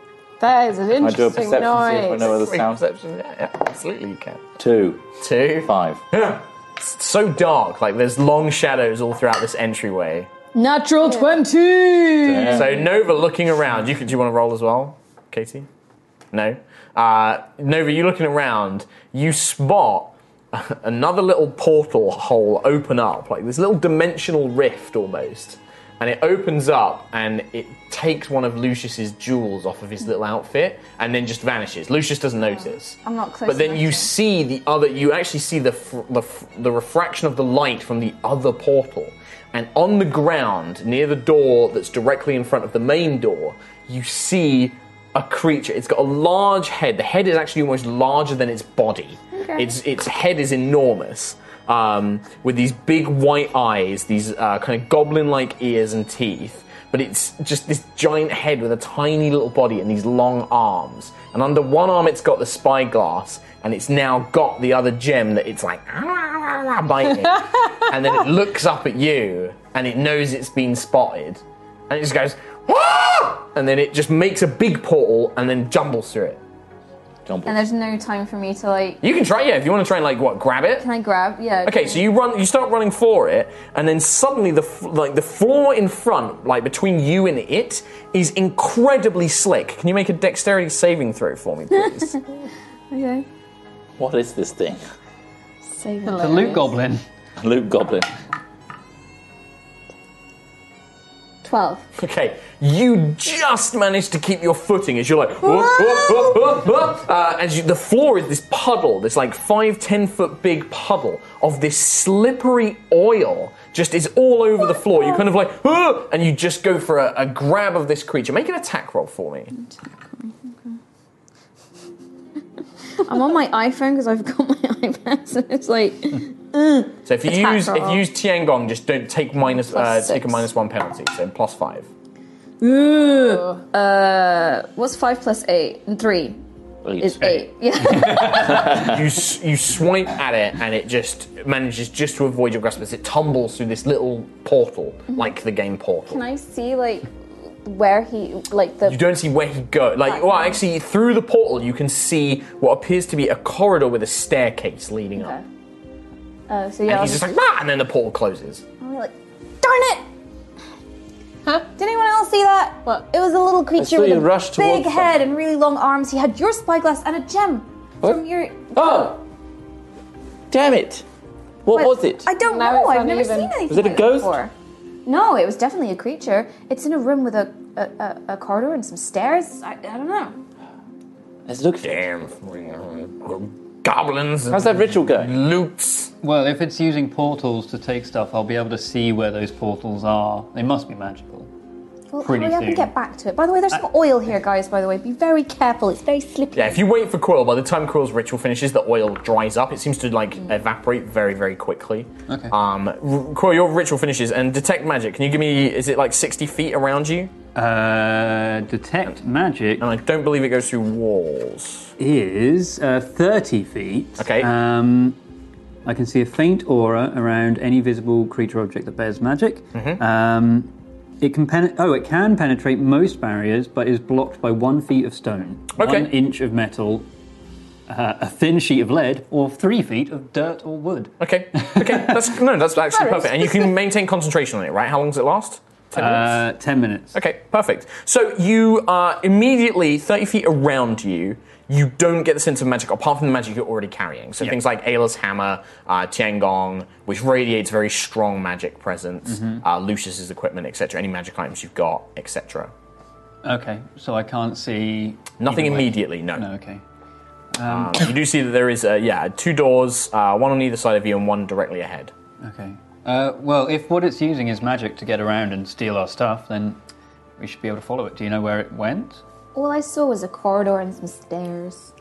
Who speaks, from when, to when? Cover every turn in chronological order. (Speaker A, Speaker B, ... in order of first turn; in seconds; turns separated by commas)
Speaker A: 0.4-2.3, Speaker B: 0.9-2.8, Speaker C: 2.1-4.4, Speaker B: 4.6-5.1, Speaker C: 5.2-10.3, Speaker B: 5.6-6.0, Speaker D: 10.5-12.6, Speaker A: 11.0-11.4, Speaker B: 12.2-12.8, Speaker C: 12.4-15.7, Speaker C: 16.3-76.4, Speaker D: 32.5-34.1, Speaker D: 49.3-49.7, Speaker B: 77.2-77.6, Speaker D: 77.5-79.0, Speaker C: 79.0-80.9, Speaker D: 80.8-82.0, Speaker C: 81.6-92.2, Speaker D: 91.8-92.1, Speaker D: 92.9-93.2, Speaker B: 94.0-94.8, Speaker D: 95.6-96.6, Speaker A: 96.0-96.6, Speaker E: 96.1-97.0, Speaker B: 97.4-98.1, Speaker D: 101.4-101.8, Speaker C: 102.0-119.5, Speaker D: 119.5-120.8, Speaker D: 123.0-128.0, Speaker C: 127.1-131.9, Speaker D: 129.4-130.5, Speaker D: 132.6-136.4, Speaker A: 133.2-133.6, Speaker B: 136.8-137.4, Speaker D: 137.0-138.9, Speaker E: 137.8-138.7, Speaker C: 138.6-146.2, Speaker D: 146.1-147.1, Speaker D: 147.6-149.0, Speaker C: 148.8-155.3, Speaker D: 150.1-150.6, Speaker D: 155.1-155.4, Speaker D: 156.5-157.2, Speaker C: 156.9-158.6, Speaker D: 158.8-160.1, Speaker D: 161.8-169.1, Speaker B: 163.8-165.2, Speaker B: 168.0-169.2, Speaker B: 170.5-171.1, Speaker B: 171.6-172.3, Speaker D: 171.7-174.5, Speaker A: 172.4-173.7, Speaker B: 173.7-174.4, Speaker D: 175.1-180.3, Speaker B: 181.5-182.0, Speaker C: 181.8-186.1, Speaker B: 184.5-185.3, Speaker E: 186.2-191.5, Speaker D: 192.1-196.8, Speaker E: 192.2-192.9, Speaker C: 196.5-207.3, Speaker E: 202.3-202.5, Speaker E: 207.5-209.8, Speaker C: 209.8-211.9, Speaker E: 212.0-215.2, Speaker C: 214.2-214.5, Speaker E: 215.8-227.1, Speaker C: 219.7-220.0, Speaker C: 225.8-226.1, Speaker E: 227.9-232.1, Speaker C: 231.2-236.4, Speaker E: 235.9-237.2, Speaker C: 237.1-252.7, Speaker E: 249.2-249.6, Speaker E: 253.4-256.8, Speaker C: 255.4-256.4, Speaker E: 257.5-258.1, Speaker C: 257.6-262.1, Speaker E: 262.4-266.8, Speaker E: 267.4-269.2, Speaker D: 269.5-271.9